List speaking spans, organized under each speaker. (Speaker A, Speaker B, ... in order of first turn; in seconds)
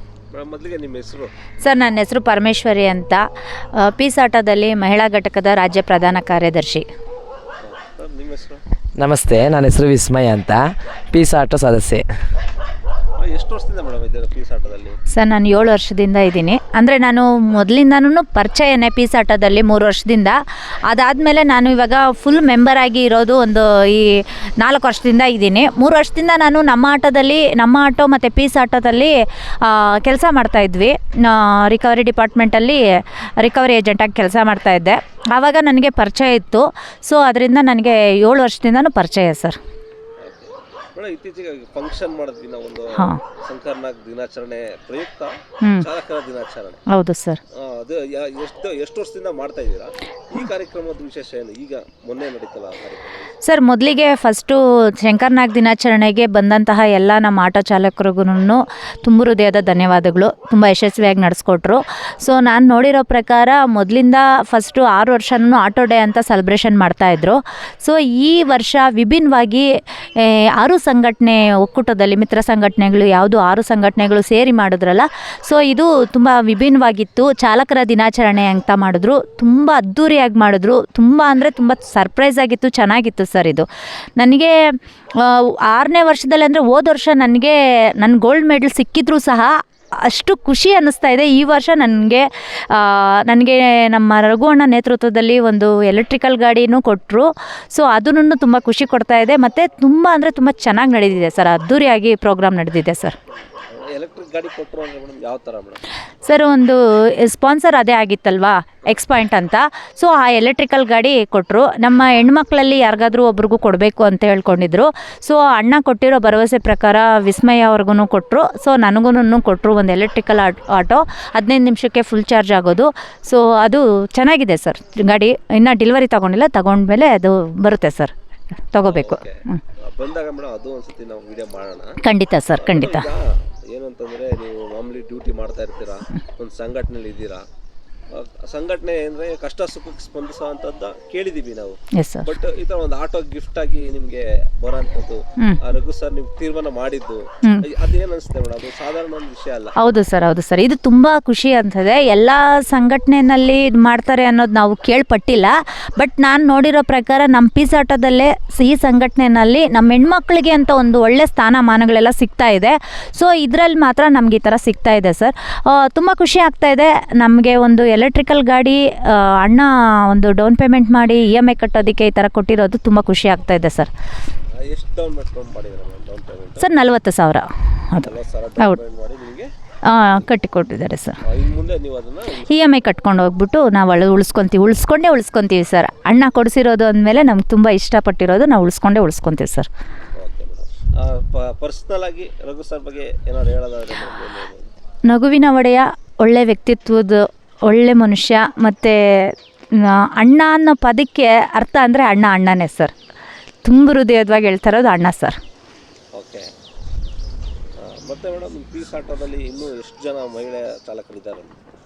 Speaker A: 0.3-1.3, 7.6-8.6, 13.2-14.9, 40.2-46.8, 47.5-53.3, 103.7-105.8, 128.8-132.0, 132.5-137.4, 138.1-149.7, 174.6-176.8, 178.0-179.5, 181.2-182.8, 190.2-194.6, 206.1-206.5, 207.8-211.5
Speaker B: 1.6-6.8, 15.1-39.6, 42.9-43.2, 46.9-47.4, 53.4-103.1, 106.2-128.1, 128.7-129.6, 132.0-133.1, 142.0-142.3, 149.8-173.9, 176.6-178.1, 179.8-181.2, 182.5-189.7, 195.1-202.9, 203.6-205.3
Speaker C: 9.0-12.1